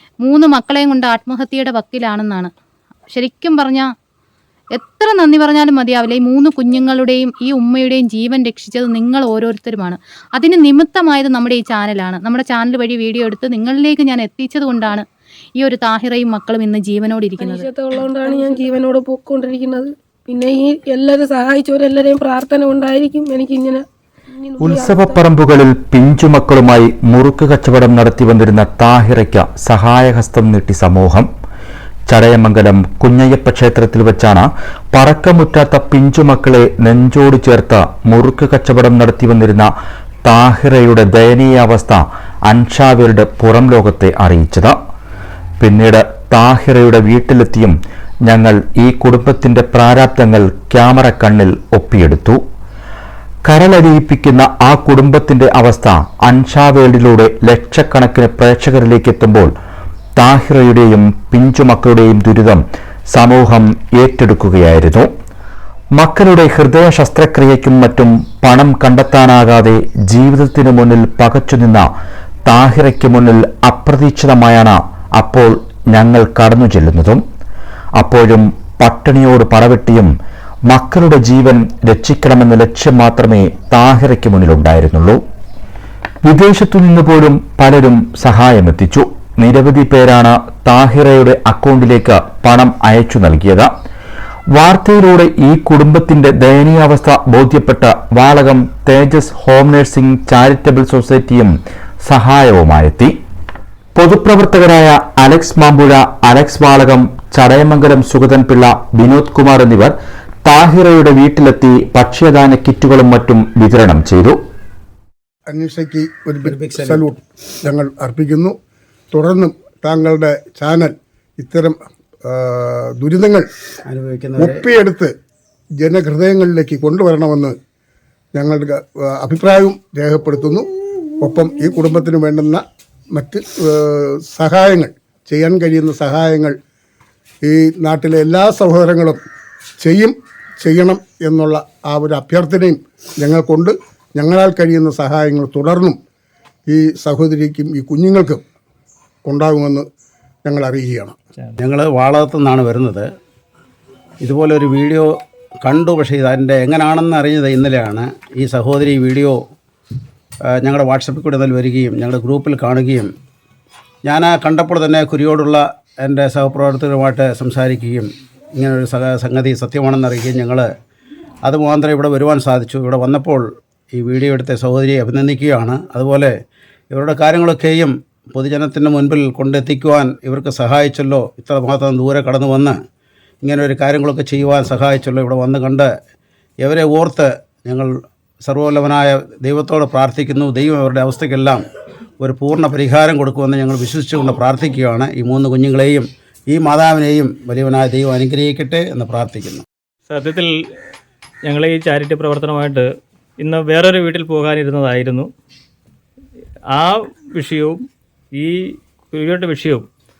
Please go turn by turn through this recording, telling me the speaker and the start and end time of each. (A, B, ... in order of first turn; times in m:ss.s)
0:00.2-0:02.5 A
0:03.1-0:03.9 A
0:04.7-0:15.0 A
0:15.6-0:17.7 A
0:17.4-0:25.2 B
0:24.6-0:31.3 C
0:32.1-0:39.7 C
0:40.2-0:44.8 C
0:45.6-0:52.4 C
0:53.4-0:59.5 C
1:00.2-1:05.1 C
1:05.9-1:11.9 C
1:12.4-1:17.2 C
1:18.0-1:20.1 C
1:20.7-1:25.2 C
1:26.2-1:33.7 C
1:34.5-1:41.5 C
1:42.0-1:43.1 C
1:44.0-1:49.9 C
1:50.4-1:54.4 C
1:55.5-1:58.5 D
1:56.4-1:57.1 E
1:59.1-2:03.4 D
2:03.9-2:04.6 E
2:04.4-2:05.1 D
2:05.8-2:07.6 D
2:08.3-2:10.6 D
2:11.2-2:16.6 D
2:17.4-2:19.2 D
2:19.8-2:26.0 D
2:26.7-2:28.4 D
2:29.2-2:29.8 D
2:30.4-2:31.2 D
2:31.6-2:33.0 E
2:34.2-2:39.4 E
2:40.6-2:43.1 E
2:44.0-2:50.6 E
2:51.4-2:56.3 E
2:56.9-3:02.8 E
3:03.4-3:05.9 E
3:06.6-3:11.6 E
3:12.2-3:19.6 E
3:20.1-3:20.5 F
3:21.4-3:22.9 F
3:23.4-3:25.3 F
3:26.7-3:27.8 F
3:28.4-3:28.6 F
3:29.1-3:29.8 F